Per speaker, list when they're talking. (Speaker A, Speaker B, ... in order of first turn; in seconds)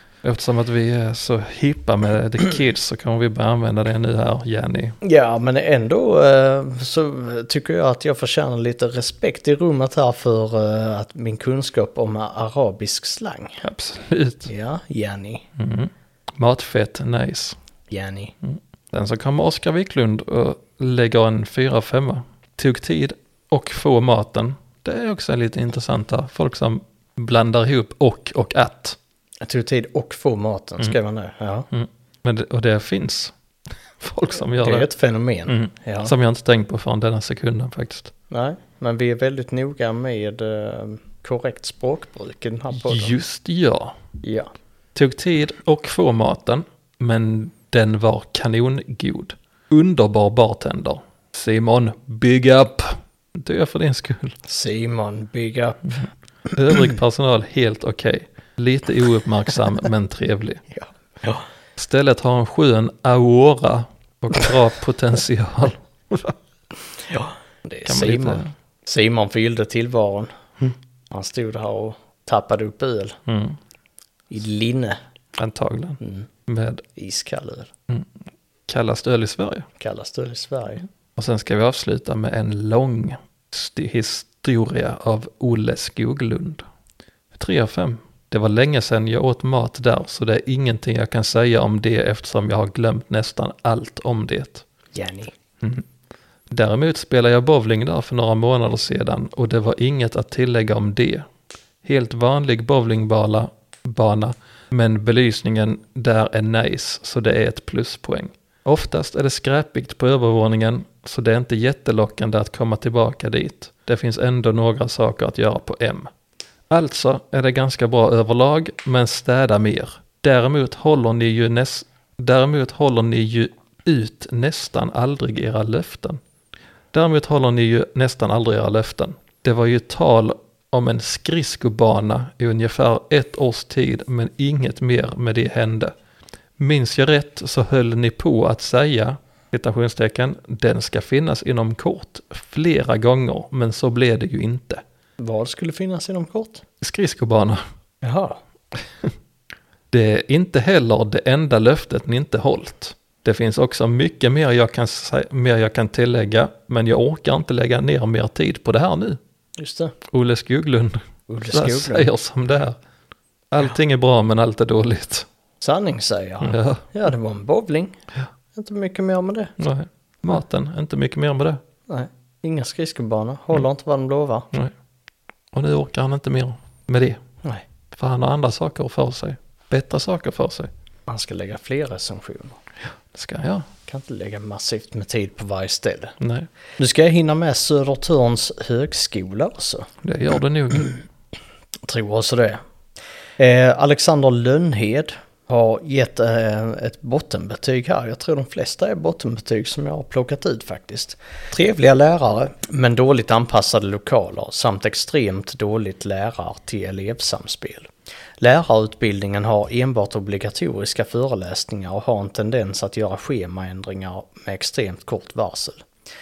Speaker A: 0.2-5.0, 13.6-14.5, 15.6-17.6, 18.4-29.0, 31.7-33.3, 34.0-34.9, 35.5-38.1, 42.7-44.0, 44.9-54.4, 55.9-60.6, 61.8-66.3, 67.8-68.5, 73.2-73.6, 75.3-76.8, 78.7-79.7, 81.2-86.6, 87.3-94.7, 96.5-101.2, 101.8-116.1, 116.7-126.2, 126.9-135.9, 136.6-144.8, 146.8-147.6, 149.9-159.2, 160.1-162.8, 163.5-165.3, 166.4-166.8, 169.6-171.6, 175.5-177.2, 177.9-180.7, 183.1-183.7, 186.2-186.5, 190.0-191.0
Speaker B: 5.0-13.6, 14.5-15.4, 17.9-18.3, 29.4-31.7, 34.6-36.1, 38.3-43.1, 44.2-44.5, 54.4-56.0, 56.7-57.0, 60.7-61.4, 67.1-70.3, 71.1-73.2, 74.3-75.0, 76.0-76.3, 77.0-77.7, 79.8-80.8, 94.9-95.3, 145.2-146.6, 148.0-148.4, 159.6-159.9, 161.3-162.1, 165.6-168.0, 168.5-169.5, 171.9-174.5, 181.1-182.6, 183.9-186.2, 186.8-189.9, 191.8-192.6, 193.4-215.8